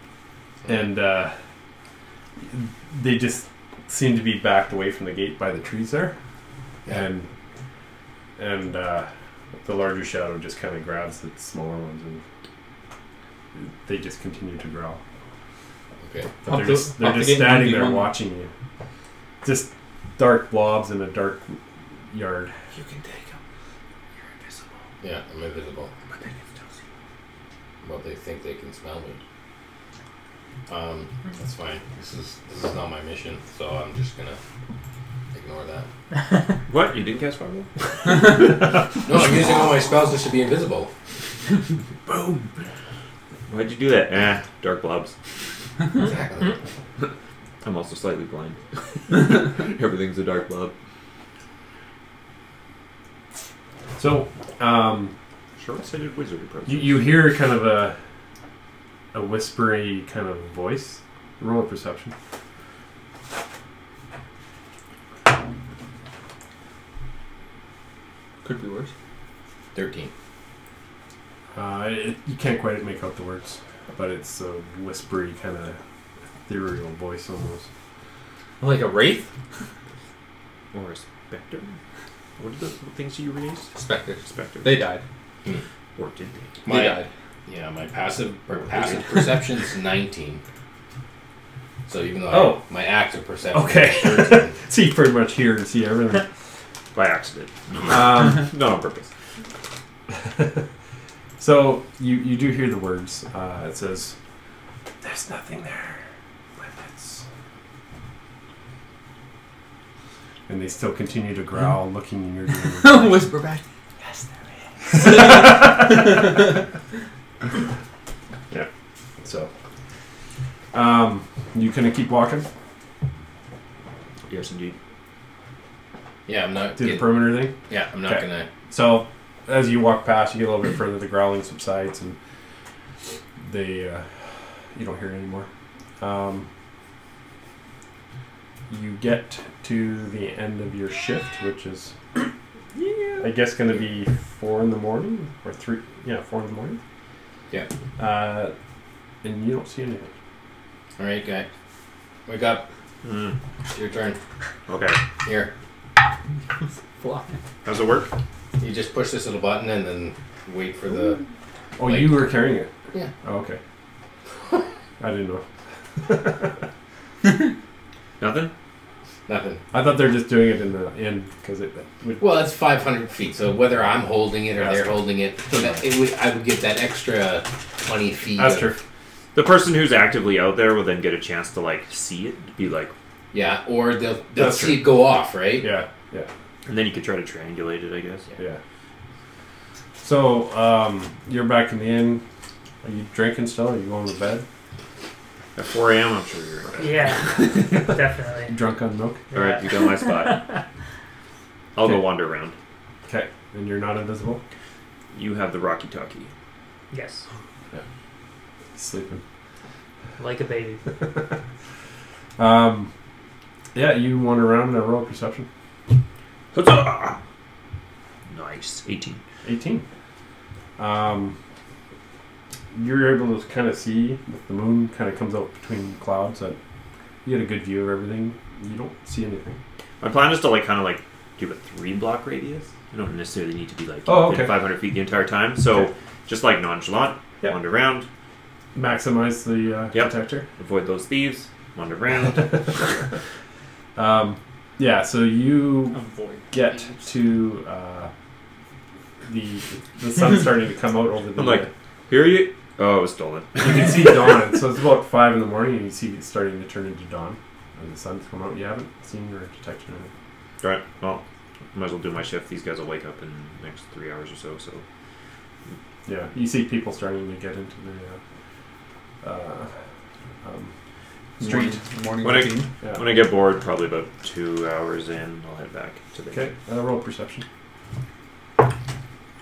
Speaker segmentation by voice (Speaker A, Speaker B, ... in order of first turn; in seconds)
Speaker A: 0.6-1.3, 2.4-6.2, 6.9-7.3, 8.4-9.1, 9.6-12.2, 13.6-15.0, 16.4-18.5, 19.4-21.6, 22.1-22.5, 54.0-55.1, 56.7-58.0, 59.1-62.1, 71.5-75.8, 76.5-77.7, 92.3-92.6, 93.5-96.3, 97.9-98.5, 100.2-100.6, 101.4-104.2, 105.0-106.0, 106.6-107.2, 110.5-113.2, 114.9-116.2, 119.2-119.5, 120.7-122.5, 126.8-132.2, 133.4-134.1, 134.7-135.5, 136.0-136.5, 138.7-141.9, 143.2-146.8, 148.0-148.5, 149.2-150.1, 161.8-162.7, 163.2-163.6, 165.0-165.4, 166.0-166.6, 169.7-172.3, 174.6-175.9, 178.4-178.8, 184.3-186.3, 190.0-192.2, 192.8-194.4, 197.4-199.2, 203.1-204.4, 208.8-209.2, 212.4-212.9, 213.7-215.5, 219.4-219.8, 220.8-221.3, 222.7-226.6, 227.2-229.6, 234.1-234.6, 238.7-240.5, 242.2-242.9, 243.9-246.0, 246.5-248.1, 249.2-251.7, 253.6-260.1, 266.1-268.2, 269.2-269.7, 270.4-270.7, 271.4-271.8, 276.3-277.4
Speaker B: 16.0-16.3, 25.0-25.9, 27.8-29.2, 30.7-34.4, 35.3-35.9, 39.0-40.9, 45.9-46.6, 69.7-70.1, 86.6-90.4, 91.9-94.5, 126.2-128.5, 151.0-151.5, 152.3-152.7, 153.7-154.2, 155.2-155.5, 158.6-161.2, 161.8-162.3, 169.3-169.6, 172.2-178.7, 183.3-185.7
Speaker C: 16.5-18.1, 68.4-68.9, 78.6-79.3, 83.7-85.0, 86.7-87.1, 112.8-113.6, 156.6-157.4, 245.9-246.8, 271.4-272.7
Speaker D: 22.8-23.3, 26.1-26.4, 36.7-37.7, 42.0-42.5, 43.5-45.1, 47.6-50.7, 55.5-57.2, 80.7-81.7, 82.4-84.7, 86.0-86.5, 96.9-99.1, 124.3-124.7, 153.0-153.3, 154.7-155.0, 157.6-158.1, 168.2-168.5, 179.3-182.9, 186.7-188.3, 195.6-197.2, 199.3-200.5, 201.7-202.6, 205.1-206.3, 216.5-217.2, 218.3-219.2, 230.0-238.1, 239.9-243.0, 251.4-254.1, 260.6-264.8, 272.2-276.5
Speaker E: 196.8-198.5, 199.3-200.6, 206.9-207.2, 210.2-210.8